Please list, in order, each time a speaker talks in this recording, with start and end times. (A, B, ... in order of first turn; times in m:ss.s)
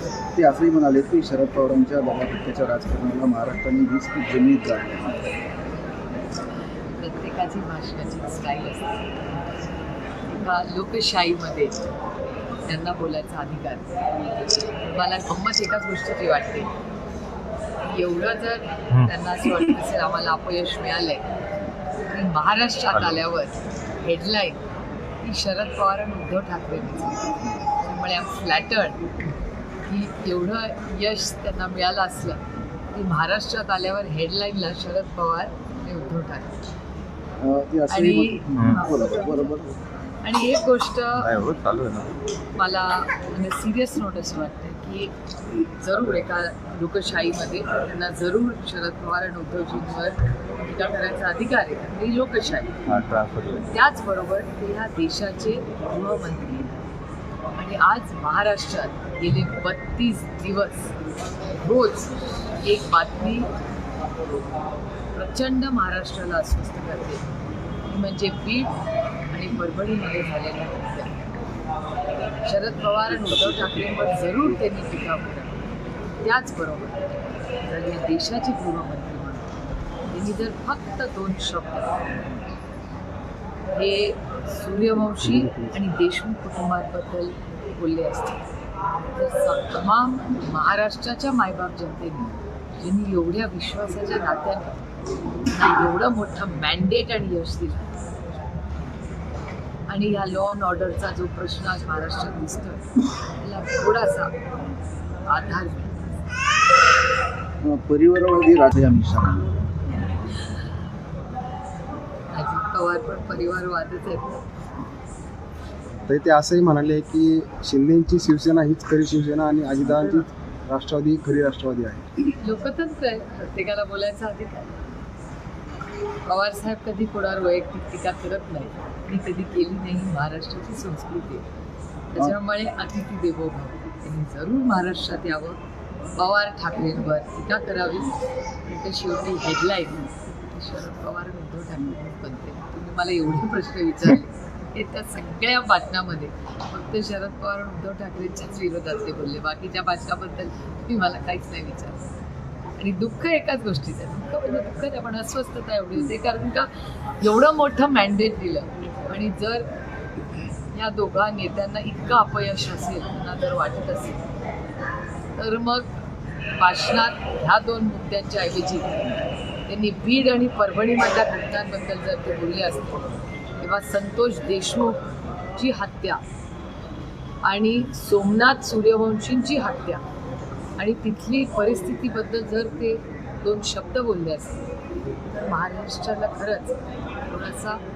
0:00.3-0:05.3 A
0:06.9-0:09.0 B
0:10.2-0:11.7 B
0:12.6-0:16.7 B
0:17.8-0:21.3 B
0:22.0-0:24.6 B
0:22.9-0:23.2 C
0:25.2-0:27.2 B
0:27.8-0:29.0 B
0:29.8-0:36.6 B
0:37.4-0:39.8 A
0:37.9-0:39.5 B
0:38.5-0:38.8 C
0:40.2-0:41.3 B
0:41.2-0:42.1 C
0:42.6-0:45.1 B
0:45.8-0:52.8 B
0:52.8-0:53.7 C
0:53.7-0:56.8 B
0:57.6-1:00.9 B
1:01.6-1:03.5 B
1:05.1-1:07.2 B
1:07.9-1:08.8 B
1:09.3-1:11.2 B
1:12.4-1:15.7 B
1:16.2-1:17.1 B
1:17.6-1:19.5 B
1:20.1-1:22.2 B
1:23.7-1:28.4 B
1:29.1-1:34.8 B
1:35.5-1:37.9 B
1:39.9-1:42.9 B
1:43.4-1:44.4 B
1:45.3-1:46.2 B
1:47.6-1:49.5 A
1:52.3-1:54.4 B
1:56.0-2:02.1 D
2:02.4-2:04.7 B
2:06.2-2:11.4 B
2:12.1-2:15.6 B
2:16.2-2:18.1 B
2:18.6-2:32.1 B
2:32.8-2:36.7 B
2:37.2-2:39.7 B
2:40.7-2:44.3 B
2:45.4-2:45.9 B
2:46.5-2:49.1 B
2:49.7-2:55.0 B
2:55.5-2:56.2 B
2:57.4-3:00.0 B
3:00.8-3:04.6 B
3:05.3-3:07.8 B